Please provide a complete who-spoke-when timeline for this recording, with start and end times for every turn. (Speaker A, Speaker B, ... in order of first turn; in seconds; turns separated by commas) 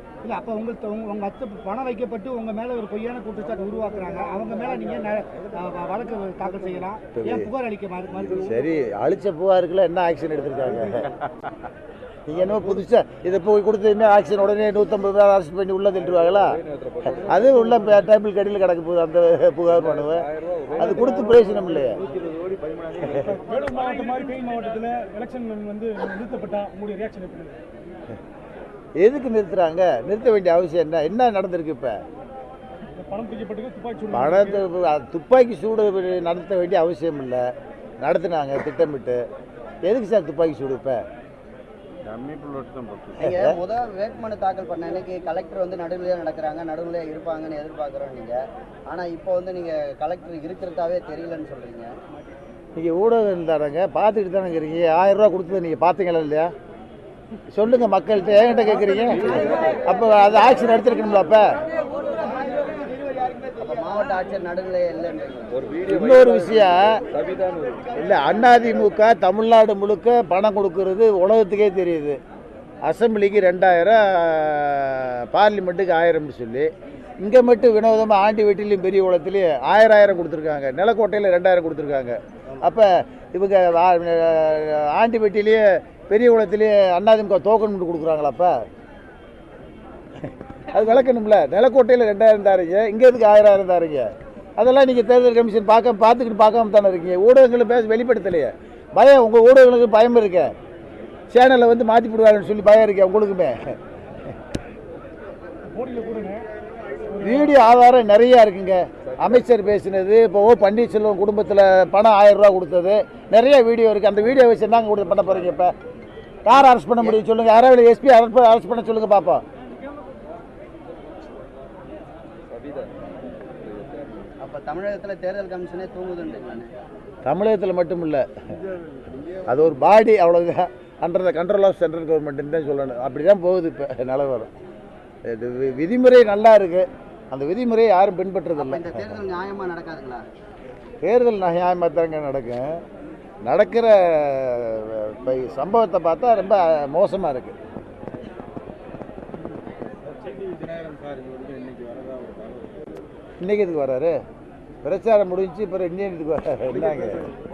Speaker A: 0.2-8.6, Speaker B: 7.2-7.5, Speaker B: 8.1-11.1, Speaker B: 12.3-16.5, Speaker C: 16.6-17.9, Speaker B: 17.1-22.0, Speaker C: 19.7-23.3, Speaker D: 23.1-27.6, Speaker B: 29.0-32.0, Speaker D: 33.0-34.6, Speaker B: 34.1-37.5, Speaker B: 38.0-39.2, Speaker B: 39.8-41.0, Speaker C: 42.0-43.2, Speaker E: 43.1-51.9, Speaker B: 43.2-43.5, Speaker B: 52.8-56.5, Speaker B: 57.5-61.5, Speaker C: 59.2-59.8, Speaker E: 59.5-59.9, Speaker E: 62.4-62.8, Speaker E: 63.5-65.7, Speaker C: 65.5-68.0, Speaker B: 65.8-67.0, Speaker B: 67.9-72.2, Speaker B: 72.8-76.7, Speaker B: 77.2-88.5, Speaker B: 90.2-100.5, Speaker B: 101.3-103.8, Speaker D: 105.7-106.4, Speaker D: 107.1-107.6, Speaker B: 107.2-115.7, Speaker C: 109.1-109.5, Speaker B: 116.5-119.4, Speaker C: 122.5-122.9, Speaker C: 123.6-124.3, Speaker E: 124.4-126.7, Speaker B: 127.2-128.3, Speaker C: 128.9-129.5, Speaker B: 129.5-134.5, Speaker B: 135.3-139.2, Speaker E: 138.6-140.2, Speaker B: 141.0-142.8, Speaker B: 143.4-147.6, Speaker C: 150.2-152.7, Speaker B: 153.4-154.2, Speaker B: 154.8-157.3